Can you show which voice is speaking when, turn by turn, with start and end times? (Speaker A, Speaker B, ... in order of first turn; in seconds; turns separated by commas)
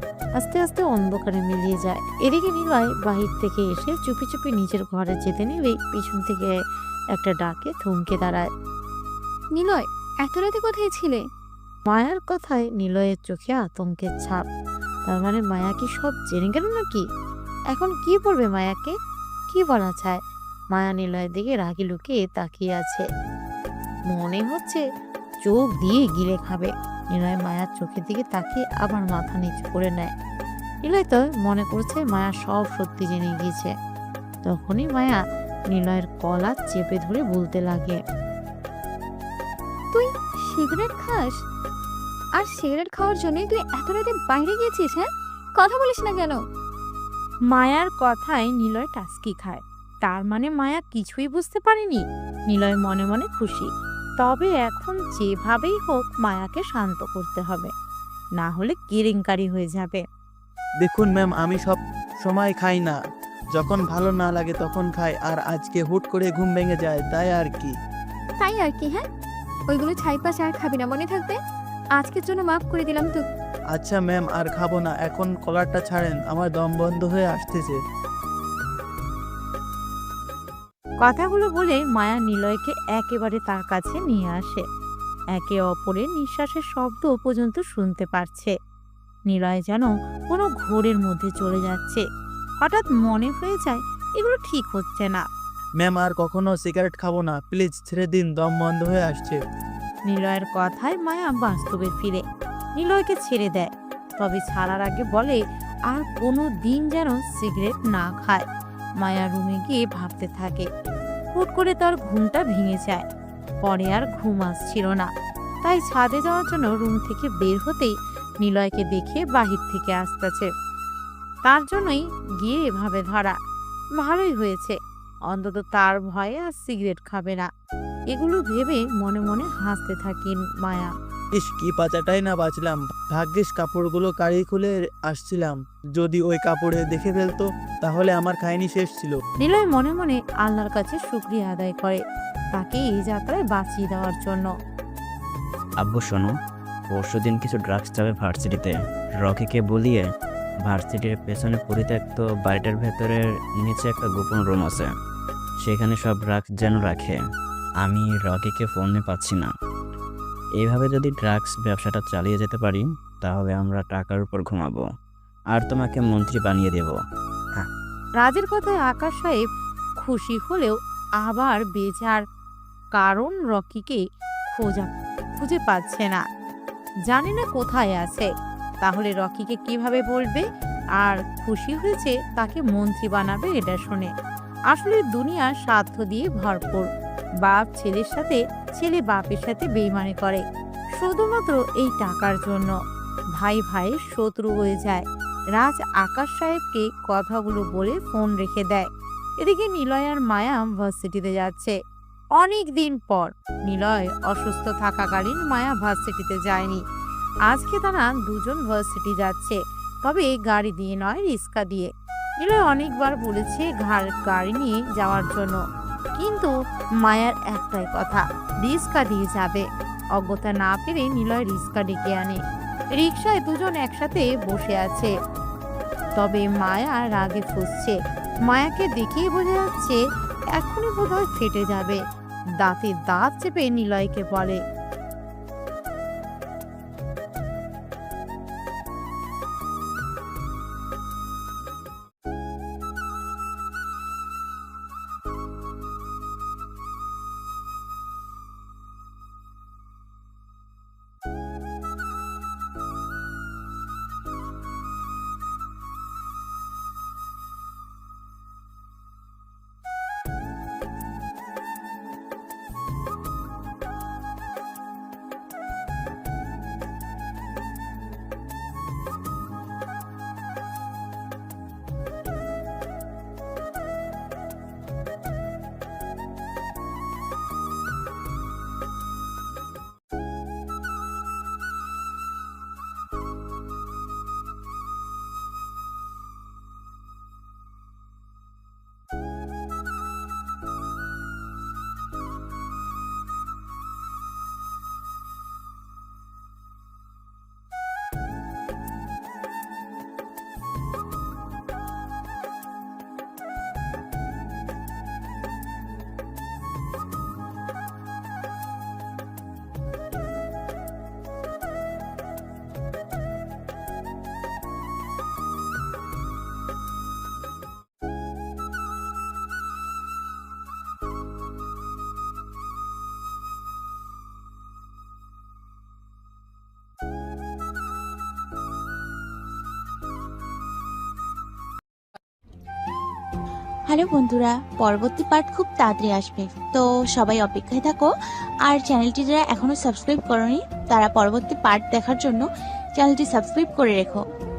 Speaker A: 0.4-6.6, Speaker A: 7.1-8.5, Speaker B: 9.6-11.2, Speaker A: 11.9-14.4, Speaker A: 15.1-17.1, Speaker A: 17.7-18.9, Speaker A: 19.5-20.2, Speaker A: 20.7-23.0, Speaker A: 24.1-24.8, Speaker A: 25.4-30.1, Speaker A: 30.9-33.7, Speaker A: 34.5-35.2, Speaker A: 35.7-38.0, Speaker B: 39.9-41.4, Speaker B: 42.4-46.4, Speaker A: 47.5-57.7, Speaker A: 58.4-60.0, Speaker C: 60.8-63.0, Speaker C: 63.5-67.7, Speaker B: 68.4-69.0, Speaker B: 69.7-71.4, Speaker B: 72.0-73.2, Speaker C: 73.7-77.8, Speaker A: 81.0-84.6, Speaker A: 85.3-88.5, Speaker A: 89.3-92.0, Speaker A: 92.6-95.2, Speaker C: 95.8-99.4, Speaker A: 100.1-102.2, Speaker A: 102.8-105.4, Speaker A: 105.9-108.5, Speaker A: 109.0-110.7, Speaker A: 111.3-113.0, Speaker A: 113.6-115.1, Speaker A: 115.6-120.5, Speaker A: 121.5-123.4, Speaker A: 124.0-124.8, Speaker A: 125.3-127.5, Speaker A: 128.1-130.9, Speaker C: 131.3-139.2, Speaker A: 139.4-142.0, Speaker A: 142.5-144.5, Speaker D: 145.8-146.3, Speaker D: 146.9-150.1, Speaker D: 150.7-154.9, Speaker D: 155.6-157.2, Speaker D: 157.8-159.5, Speaker D: 160.6-164.8, Speaker D: 165.5-167.0, Speaker A: 168.2-169.4, Speaker A: 170.0-172.2, Speaker A: 173.0-176.2, Speaker A: 177.1-178.3, Speaker A: 178.8-180.4, Speaker A: 181.0-184.1, Speaker A: 184.7-186.9, Speaker A: 187.4-190.4, Speaker A: 191.0-192.7, Speaker A: 193.4-195.0, Speaker A: 195.6-198.9, Speaker A: 199.4-201.8, Speaker A: 202.4-206.8, Speaker A: 207.5-211.9, Speaker A: 212.4-215.6, Speaker A: 216.2-216.5, Speaker A: 217.0-219.6, Speaker A: 220.2-222.4, Speaker A: 223.0-225.1, Speaker A: 226.2-228.0, Speaker A: 228.5-230.0, Speaker A: 230.5-232.0, Speaker A: 232.6-234.6, Speaker E: 333.9-338.1, Speaker E: 338.7-342.4, Speaker E: 343.0-344.2